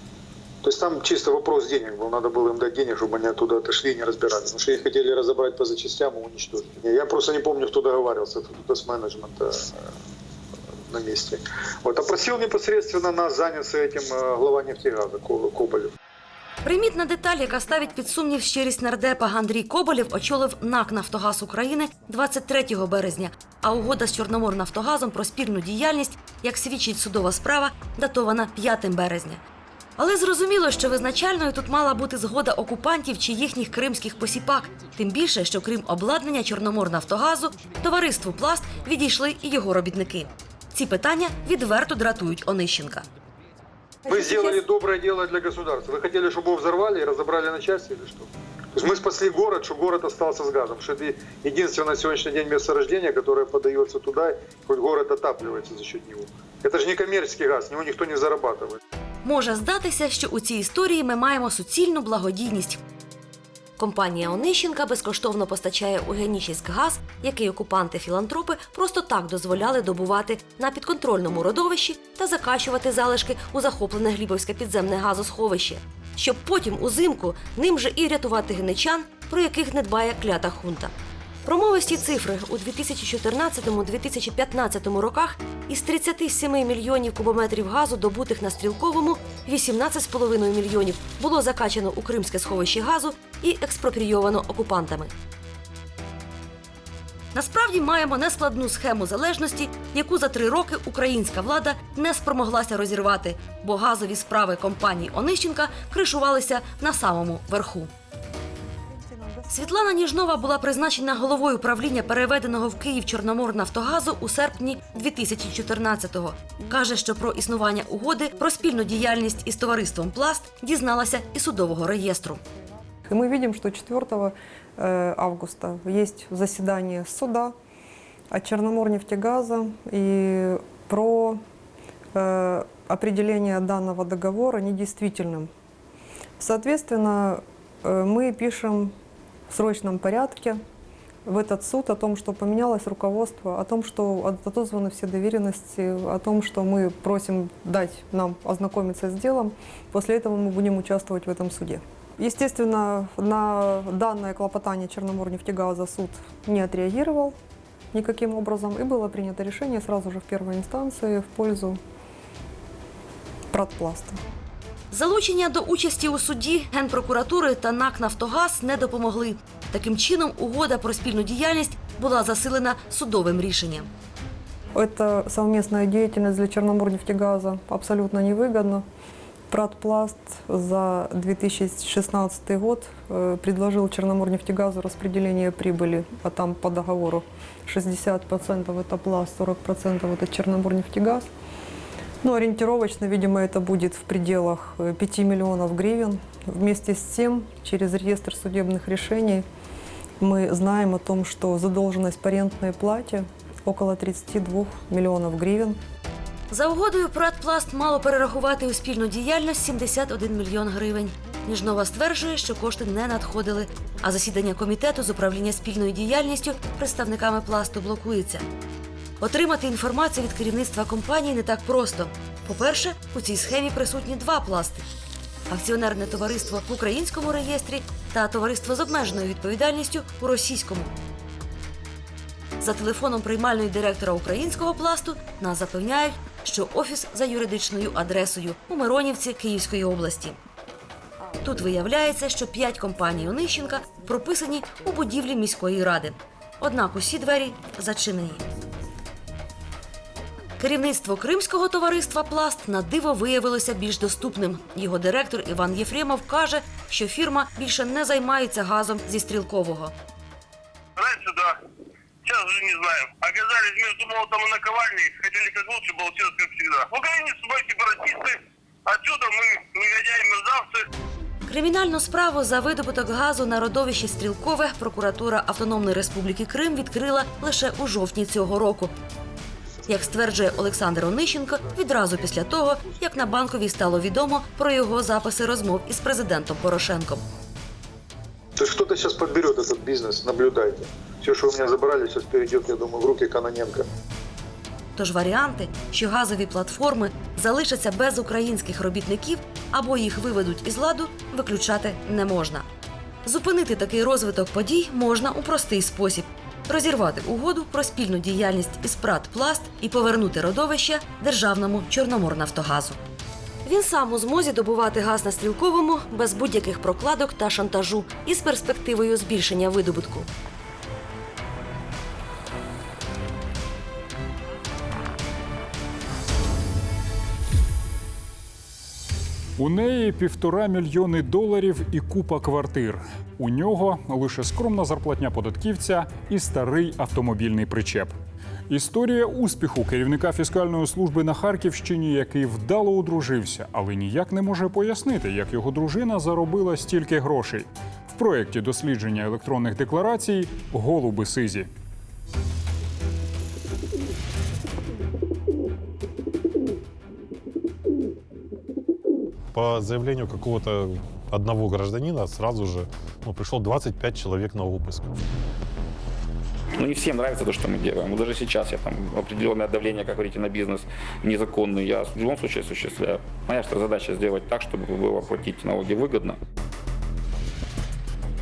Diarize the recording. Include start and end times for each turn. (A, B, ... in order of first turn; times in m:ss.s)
0:00.6-0:09.7 A
0:10.9-0:15.9 A
0:16.6-0:29.4 B
0:30.0-0:43.1 B
0:44.1-0:58.8 A
0:59.2-1:02.8 B
1:03.8-1:20.9 B
1:21.4-1:35.1 B
1:37.3-1:47.9 B
1:49.5-2:02.4 B
2:03.1-2:07.6 C
2:08.3-2:11.4 C
2:12.2-2:15.5 C
2:16.4-2:18.9 C
2:19.5-2:20.6 C
2:21.3-2:37.4 C
2:37.9-2:41.8 C
2:43.5-2:44.2 C
2:44.9-2:53.9 B
2:54.8-2:58.8 C
2:59.5-3:11.3 C
3:12.2-3:19.5 C
3:20.2-3:25.8 C
3:26.5-3:38.4 B
3:39.2-3:44.9 B
3:45.5-3:50.9 B
3:52.6-4:00.4 B
4:01.4-4:08.4 B
4:10.6-4:20.0 B
4:21.0-4:21.6 D
4:22.2-4:30.8 D
4:31.5-4:38.9 B
4:39.9-4:47.2 B
4:48.6-4:53.8 A
4:55.0-5:02.7 B
5:03.2-5:13.0 B
5:13.6-5:20.3 B
5:29.6-5:38.2 E
5:38.7-5:51.7 E
5:59.5-6:05.1 F
6:06.8-6:16.4 G